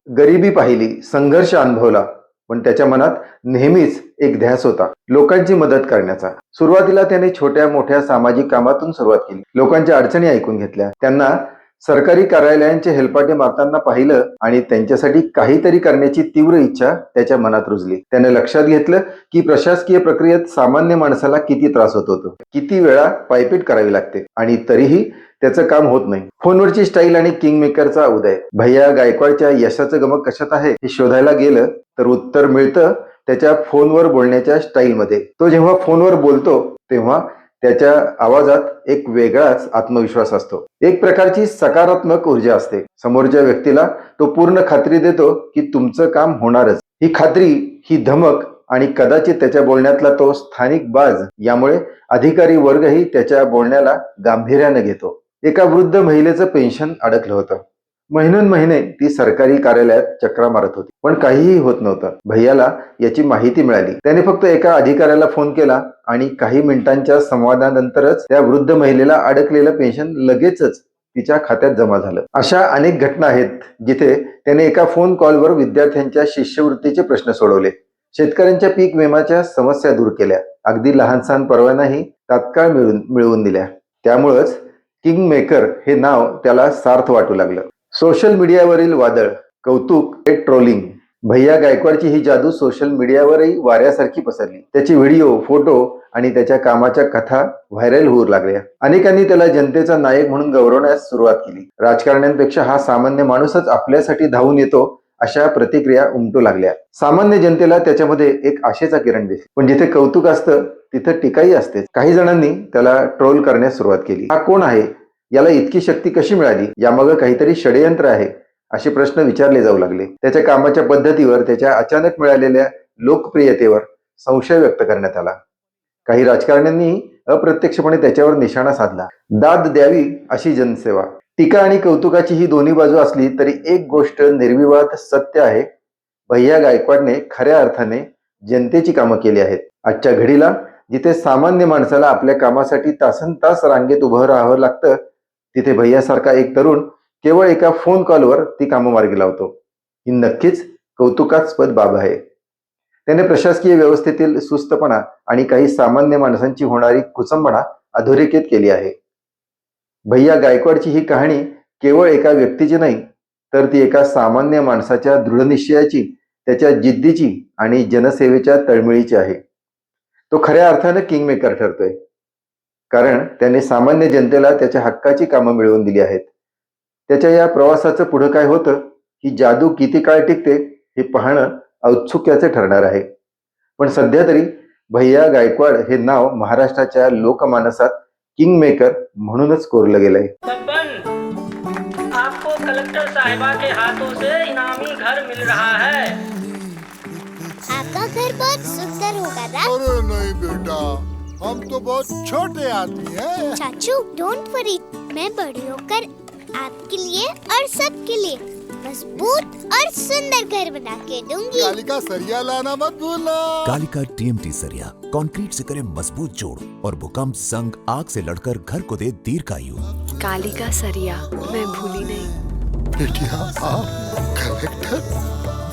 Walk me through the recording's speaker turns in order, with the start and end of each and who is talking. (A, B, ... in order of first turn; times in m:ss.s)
0:00.2-2:05.4 A
2:06.1-2:15.7 A
2:16.3-2:25.0 A
2:25.5-2:32.2 A
2:33.1-2:38.9 A
2:40.1-2:49.4 A
2:50.3-2:52.0 A
2:52.9-2:56.3 A
2:57.1-3:03.1 A
3:03.8-3:10.3 A
3:10.5-3:11.0 B
3:12.1-3:16.1 B
3:17.7-3:19.7 C
3:19.6-3:23.6 D
3:23.6-3:31.8 C
3:31.6-3:33.8 D
3:33.6-3:39.9 E
3:40.2-3:42.3 F
3:43.0-3:45.1 D